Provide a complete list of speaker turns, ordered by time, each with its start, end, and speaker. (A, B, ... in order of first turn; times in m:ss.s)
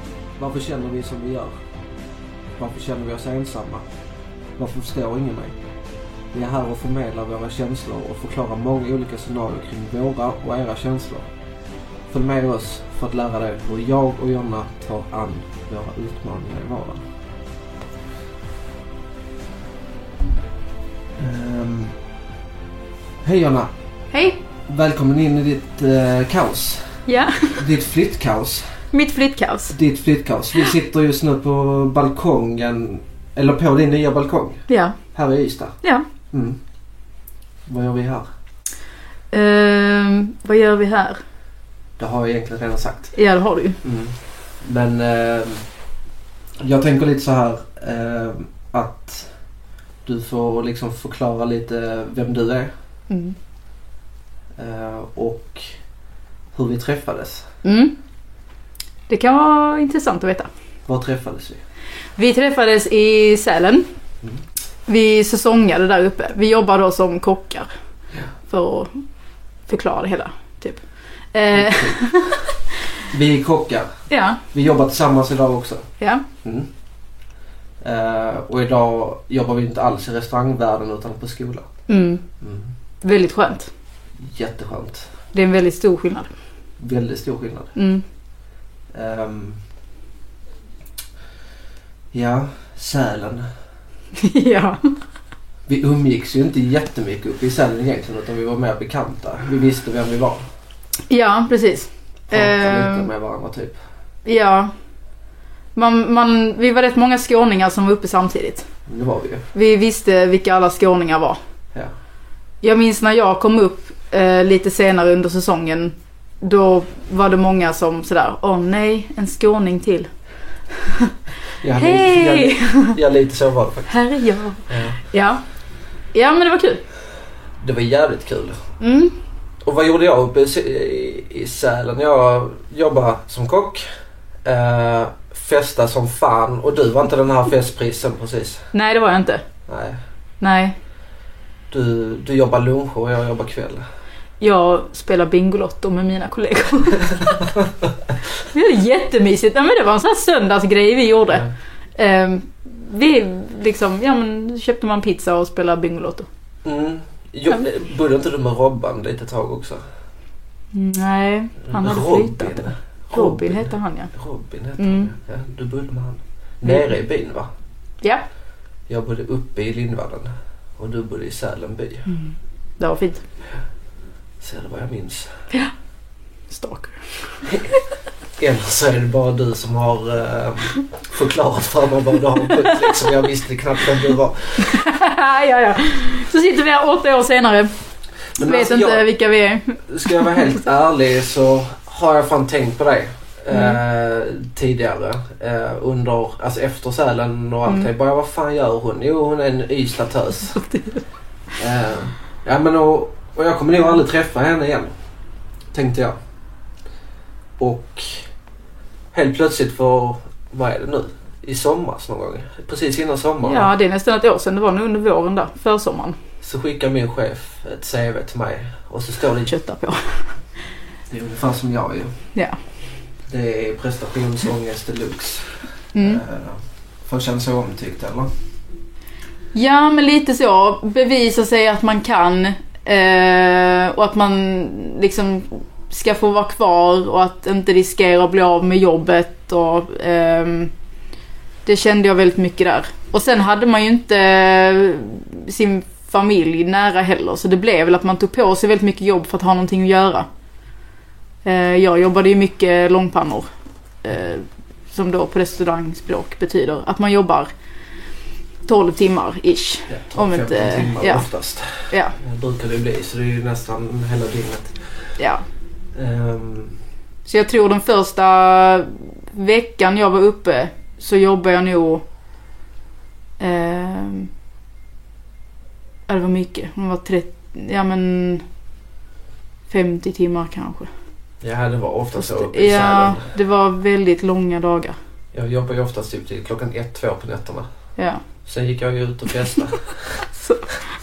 0:00.4-0:01.6 A
0:02.6-0:03.9 A
0:04.6-0:05.6 A
0:06.3-0:11.3 A
0:12.1-0:17.0 A
0:21.2-0:21.9 A
0:23.2-0:23.7 A
0:24.1-0:24.4 B
0:24.7-0:26.9 A
0:27.1-0:27.6 B
0:27.6-0:28.7 A
0:28.9-0:29.8 B
0:29.7-0:35.8 A
0:34.7-0:35.0 B
0:36.3-0:36.6 A
0:37.7-0:38.2 A
0:39.3-0:41.2 B
0:42.0-0:43.1 A
0:43.1-0:43.8 B
0:43.8-0:45.6 A
0:46.6-0:49.3 A
0:50.0-0:52.7 A
0:53.1-0:53.4 B
0:54.6-0:55.7 A
0:56.5-0:57.5 A
0:57.6-0:58.0 B
0:59.1-1:00.5 B
1:00.9-1:01.6 A
1:02.2-1:03.8 B
1:04.9-1:07.7 B
1:08.5-1:09.0 B
1:09.7-1:10.8 B
1:11.3-1:12.5 B
1:11.5-1:12.0 A
1:13.1-1:13.9 A
1:14.1-1:14.4 B
1:14.5-1:15.9 A
1:16.0-1:16.2 B
1:16.4-1:16.7 A
1:17.8-1:21.7 A
1:21.9-1:22.2 B
1:22.4-1:22.7 A
1:23.0-1:23.7 B
1:24.2-1:25.1 A
1:25.3-1:26.3 B
1:26.8-1:27.7 A
1:27.7-1:28.0 B
1:28.9-1:29.6 A
1:32.1-1:33.4 A
1:34.2-1:35.0 B
1:35.7-1:40.4 A
1:41.1-1:43.1 B
1:42.3-1:43.8 A
1:44.2-1:44.7 B
1:45.8-1:48.7 B
1:48.9-1:49.4 A
1:49.5-1:51.4 B
1:52.6-2:00.1 B
2:00.7-2:01.1 B
2:01.6-2:03.9 A
2:01.8-2:03.0 B
2:03.9-2:05.4 B
2:04.7-2:05.0 A
2:06.1-2:06.8 B
2:07.6-2:08.6 A
2:08.8-2:09.1 B
2:09.6-2:13.8 A
2:14.4-2:18.6 A
2:18.7-2:19.4 B
2:19.7-2:20.0 A
2:20.4-2:20.7 B
2:21.7-2:23.8 A
2:24.4-2:27.5 B
2:27.5-2:27.9 A
2:28.5-2:36.3 B
2:36.6-2:39.8 A
2:40.7-2:44.1 B
2:41.6-2:47.5 A
2:44.8-2:45.1 B
2:48.9-2:52.1 A
2:52.1-2:53.2 B
2:54.4-2:55.3 A
2:56.5-2:57.5 B
2:58.4-3:04.8 A
3:02.4-3:03.1 B
3:04.6-3:07.7 B
3:08.4-3:09.0 A
3:08.4-3:10.6 B
3:09.9-3:20.6 A
3:13.5-3:13.8 B
3:20.6-3:21.0 B
3:21.6-3:24.9 A
3:25.7-3:26.2 A
3:27.6-3:28.3 A
3:29.1-3:33.7 A
3:33.4-3:36.2 B
3:36.4-3:39.5 A
3:39.5-3:40.3 B
3:41.1-3:42.1 A
3:43.3-3:48.3 A
3:45.9-3:46.2 B
3:49.5-4:00.7 B
4:01.6-4:10.3 B
4:11.4-4:13.5 B
4:14.0-4:17.5 B
4:18.7-4:21.3 B
4:19.9-4:24.8 A
4:21.9-4:22.2 B
4:25.2-4:25.4 B
4:25.9-4:26.7 A
4:27.2-4:32.0 B
4:33.4-4:34.3 B
4:36.1-4:38.4 B
4:39.7-4:40.9 B
4:41.4-4:43.3 A
4:42.2-4:45.0 B
4:45.3-4:47.6 A
4:48.0-4:48.2 B
4:48.4-4:50.2 A
4:50.4-4:50.8 B